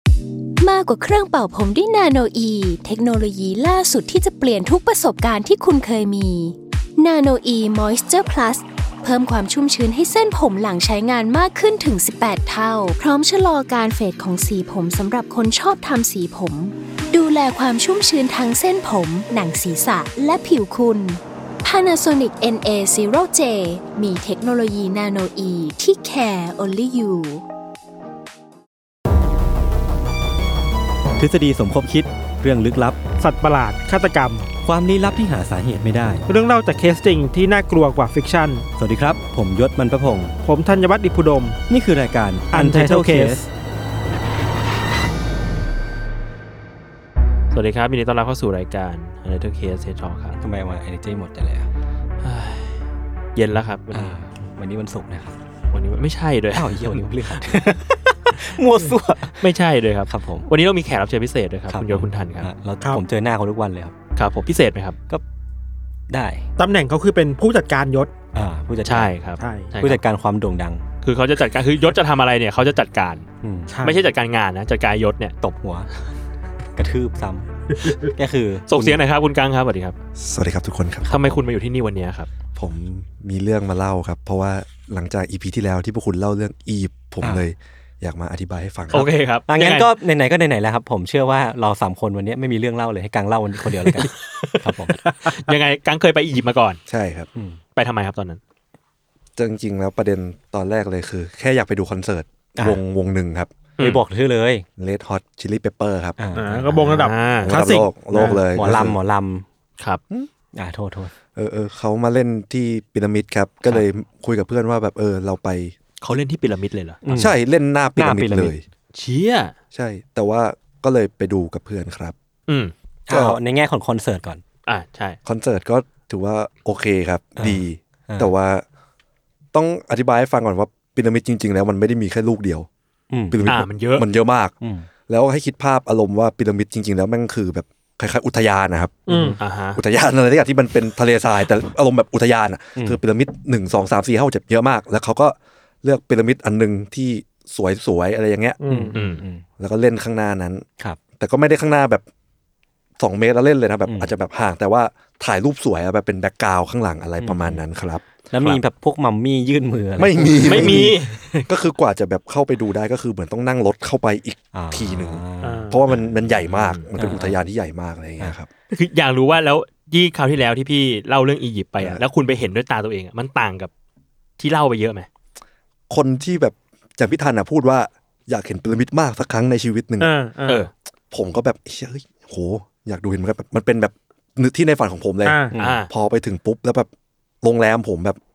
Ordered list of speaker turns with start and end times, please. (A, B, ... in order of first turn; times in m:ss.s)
0:00.6-0:27.4 A
0:31.2-0:33.0 B
0:33.2-0:34.4 C
0:34.6-0:36.2 B
0:36.3-0:38.7 C
0:38.8-0:40.3 B
0:40.4-0:41.6 C
0:41.7-0:43.4 B
0:42.5-0:43.5 C
0:47.5-0:50.4 D
0:50.4-0:51.7 B
0:52.2-0:52.8 D
0:53.4-0:54.2 D
0:53.9-0:55.4 B
0:55.7-0:57.4 D
0:56.5-0:59.5 B
0:59.4-1:02.5 D
1:00.1-1:00.5 B
1:01.7-1:03.9 B
1:04.2-1:05.0 D
1:06.1-1:06.5 B
1:06.6-1:08.1 C
1:08.3-1:09.1 B
1:08.8-1:10.0 D
1:09.4-1:09.7 C
1:09.8-1:10.8 B
1:11.0-1:13.2 D
1:13.4-1:13.8 B
1:13.7-1:14.1 C
1:13.8-1:15.4 D
1:15.4-1:15.9 B
1:16.8-1:17.4 B
1:18.0-1:19.0 B
1:18.7-1:20.0 D
1:20.2-1:21.1 E
1:21.1-1:22.3 D
1:22.6-1:29.1 E
1:28.9-1:29.9 D
1:29.5-1:35.0 B
1:34.4-1:35.5 C
1:35.3-1:36.8 D
1:36.9-1:37.3 E
1:37.3-1:37.6 B
1:37.8-1:38.4 D
1:39.4-1:43.5 E
1:43.8-1:44.6 B
1:44.8-1:46.2 E
1:46.2-1:47.1 B
1:46.3-1:48.4 C
1:47.0-1:47.5 D
1:47.4-1:49.0 E
1:48.5-1:49.4 B
1:50.5-1:51.1 B
1:51.3-1:55.8 E
1:56.0-1:57.0 D
1:57.0-1:57.4 B
1:57.1-1:58.6 E
1:58.0-1:58.5 B
1:58.9-1:59.5 D
1:59.7-2:02.1 E
2:02.5-2:02.7 D
2:03.1-2:04.4 B
2:03.1-2:03.4 E
2:04.7-2:05.2 D
2:05.2-2:08.6 E
2:07.4-2:08.3 B
2:09.5-2:12.7 E
2:13.1-2:13.5 B
2:13.3-2:14.5 E
2:13.4-2:14.0 D
2:14.6-2:14.9 B
2:15.1-2:19.1 E
2:19.1-2:19.4 C
2:19.1-2:19.4 B
2:19.4-2:19.8 D
2:19.7-2:28.6 E
2:28.6-2:28.9 C
2:28.7-2:29.4 B
2:28.9-2:29.2 D
2:29.6-2:30.6 E
2:31.2-2:32.0 E
2:33.0-2:38.0 E
2:33.8-2:34.1 B
2:37.2-2:37.6 B
2:38.3-2:40.9 B
2:40.0-2:48.5 E
2:40.4-2:41.5 D
2:44.5-2:45.7 B
2:45.4-2:45.8 C
2:45.9-2:46.8 D
2:47.0-2:47.4 B
2:48.7-2:53.7 D
2:54.4-2:55.1 D
2:55.9-3:00.1 E
3:00.0-3:00.7 C
3:01.1-3:06.9 E
3:05.2-3:05.5 C
3:05.5-3:05.8 B
3:05.6-3:05.9 D
3:07.4-3:08.2 E